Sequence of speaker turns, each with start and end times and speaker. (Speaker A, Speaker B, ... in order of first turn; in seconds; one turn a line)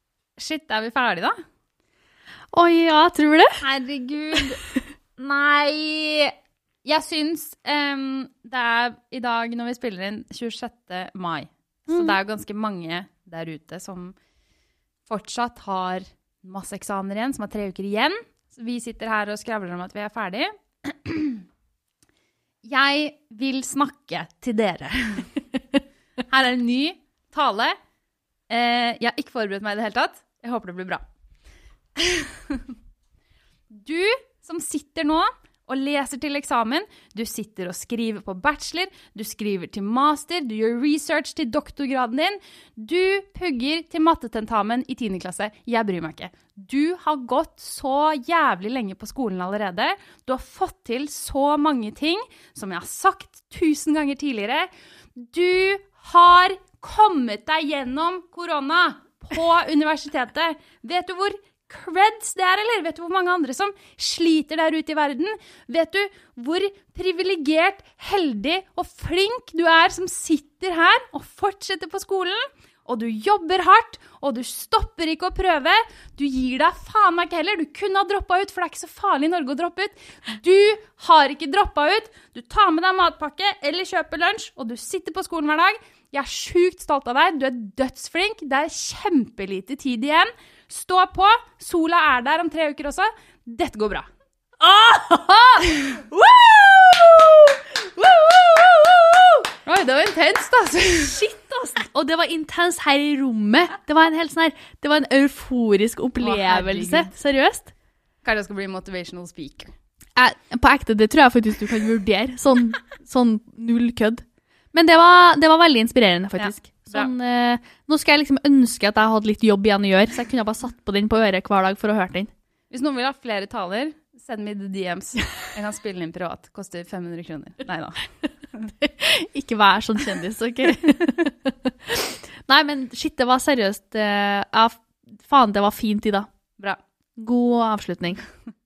Speaker A: 0.4-1.4
Speaker B: 2.5-3.6
Speaker A: 3.6-4.6
Speaker A: 5.2-14.2
Speaker B: 11.9-12.2
Speaker A: 15.1-21.4
Speaker A: 22.6-25.3
Speaker A: 26.3-27.8
Speaker A: 28.5-31.0
Speaker A: 32.0-32.7
Speaker A: 33.7-94.1
Speaker B: 94.6-95.7
Speaker A: 95.6-97.5
Speaker A: 98.0-98.4
Speaker B: 98.1-99.3
Speaker A: 99.6-101.2
Speaker B: 101.0-107.7
Speaker A: 106.2-107.1
Speaker A: 108.2-109.7
Speaker B: 110.2-122.3
Speaker A: 116.4-117.1
Speaker A: 122.7-128.0
Speaker B: 128.8-136.3
Speaker B: 137.2-138.3